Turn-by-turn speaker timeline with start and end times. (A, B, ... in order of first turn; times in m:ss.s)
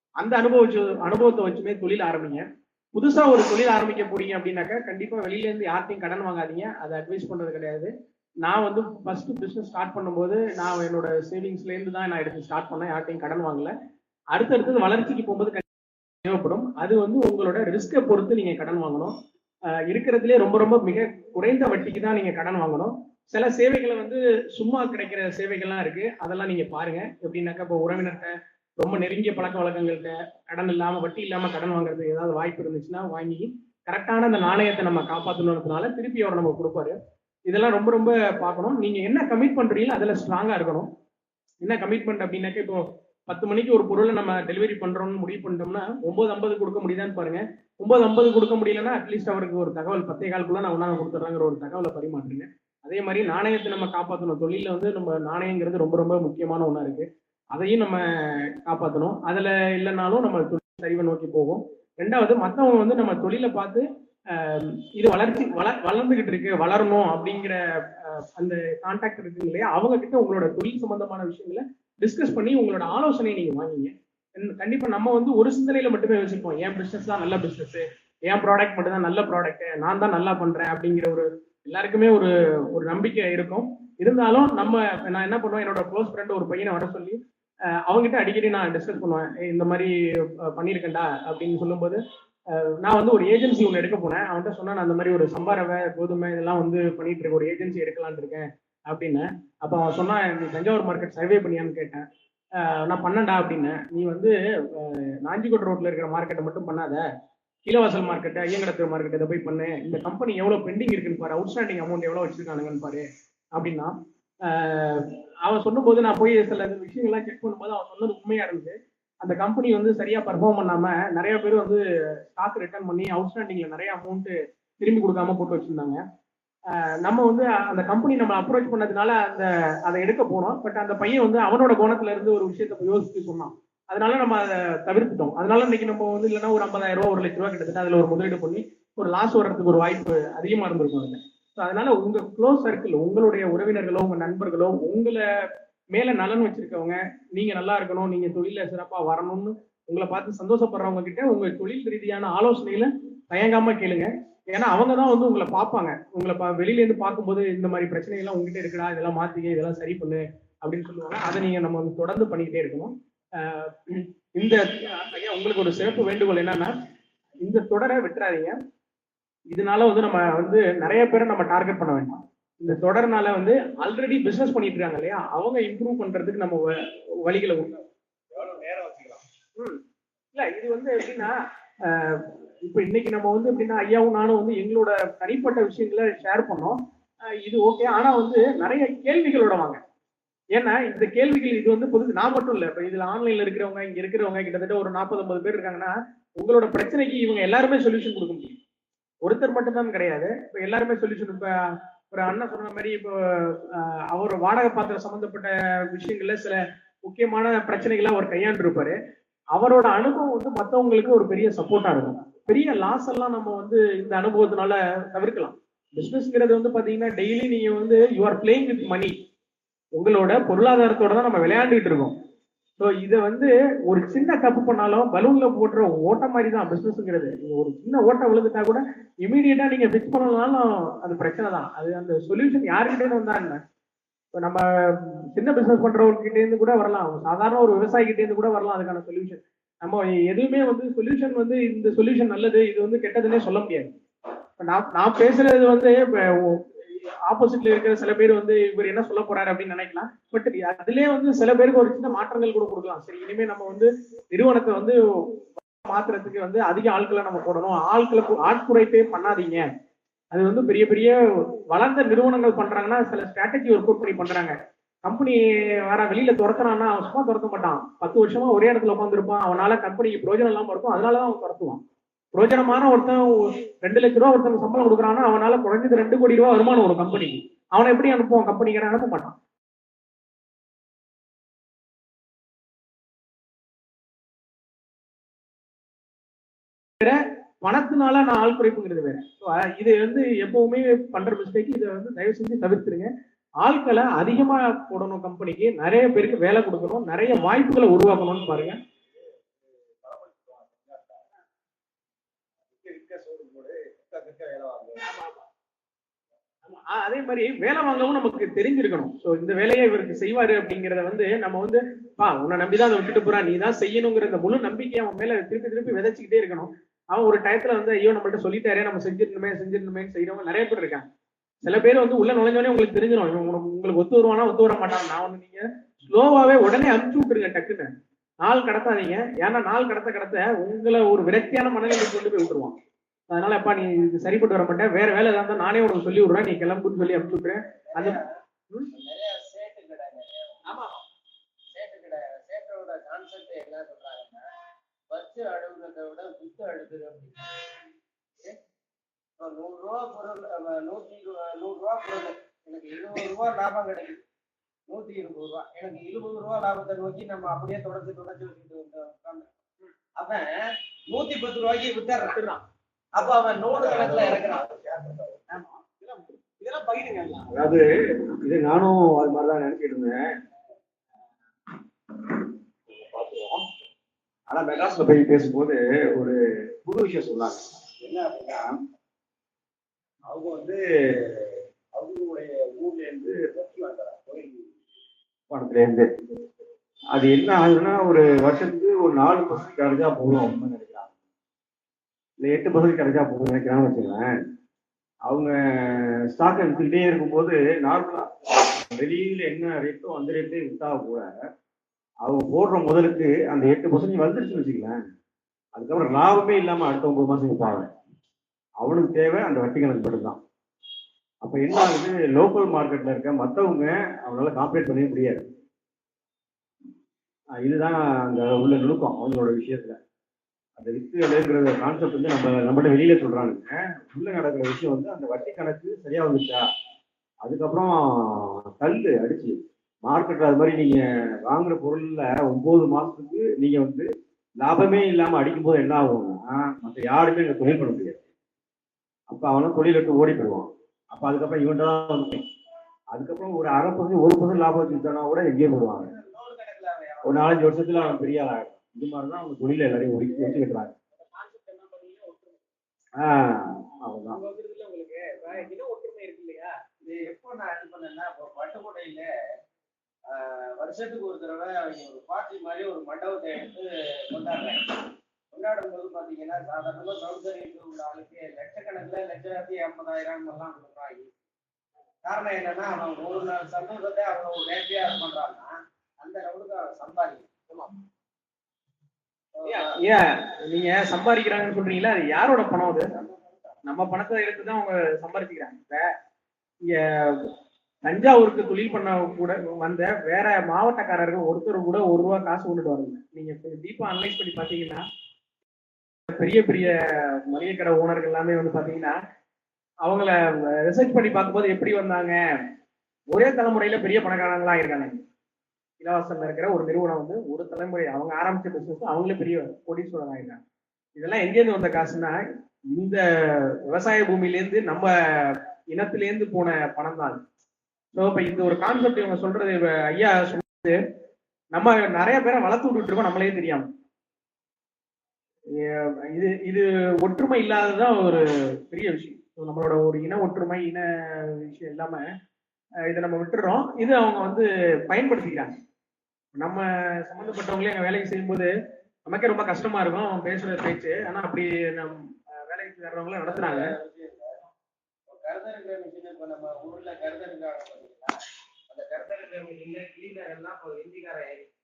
0:00.2-0:07.9 A
0:08.4-0:13.7 A
0:14.3-0:15.6 A
0:16.2-0:19.1 A
0:19.9-0:36.9 A
0:37.5-0:40.9 A
0:41.6-1:27.2 A
1:27.9-1:32.0 A
1:32.5-1:42.0 A
1:42.6-1:47.1 A
1:47.7-1:53.9 A
1:54.4-2:06.0 A
2:06.7-2:46.7 A
2:47.4-2:48.6 A
2:49.5-2:57.8 A
2:58.3-2:59.1 B
3:00.3-3:06.8 A
3:07.4-3:09.8 A
3:10.5-3:18.6 A
3:19.2-3:29.0 A
3:29.5-3:39.1 A
3:40.0-3:42.1 A
3:42.8-3:53.6 A
3:54.4-4:03.9 A
4:04.6-4:19.7 A
4:20.3-4:31.8 A
4:32.4-4:39.4 A
4:47.0-4:53.1 A
4:53.6-4:58.8 A
5:00.0-5:01.2 B
5:02.8-5:04.8 B
5:03.2-5:03.7 C
5:05.0-5:05.4 A
5:06.7-5:21.0 A
5:21.6-5:27.9 A
5:28.4-5:32.8 A
5:33.3-5:38.2 A
5:37.9-5:38.2 B
5:38.9-5:40.6 B
5:40.7-5:41.0 A
5:41.7-5:44.4 B
5:45.1-5:47.6 B
5:49.4-5:54.2 B
5:54.9-5:59.5 B
6:00.2-6:02.4 B
6:02.2-6:02.6 A
6:03.2-6:05.4 B
6:03.8-6:04.4 A
6:05.5-6:07.5 A
6:07.5-6:10.2 C
6:12.1-6:13.6 C
6:14.5-6:17.6 C
6:18.0-6:18.7 B
6:20.3-6:20.8 B
6:21.5-6:24.6 B
6:25.5-6:26.3 C
6:27.1-6:31.1 C
6:32.4-6:34.4 C
6:35.3-6:41.3 C
6:42.2-6:45.0 C
6:45.8-6:47.9 C
6:48.8-6:50.4 C
6:51.4-6:55.4 C
6:57.6-7:00.0 C
7:00.8-7:06.6 C
7:07.4-7:14.1 C
7:14.6-7:18.2 C
7:19.3-7:22.4 C
7:23.1-7:26.1 C
7:26.0-7:28.2 B
7:27.2-7:31.0 C
7:31.2-7:32.6 A
7:33.2-7:34.4 C
7:34.3-7:36.8 A
7:37.0-7:39.3 B
7:40.3-7:51.3 B
7:52.2-7:57.9 B
7:59.5-8:00.0 B
7:59.6-8:03.1 A
8:02.9-8:03.3 B
8:03.9-8:06.1 A
8:06.8-8:07.5 A
8:08.0-8:15.0 A
8:16.3-8:19.2 A
8:20.0-8:22.4 A
8:23.3-8:25.2 A
8:26.0-8:30.6 A
8:31.2-8:32.4 A
8:32.9-8:37.4 A
8:38.1-8:41.0 A
8:41.7-8:43.9 A
8:45.7-8:52.2 A
8:53.1-8:55.7 A
8:56.6-8:58.7 A
8:59.2-9:04.0 A
9:03.5-9:04.6 B
9:05.3-9:08.4 B
9:08.9-9:11.7 B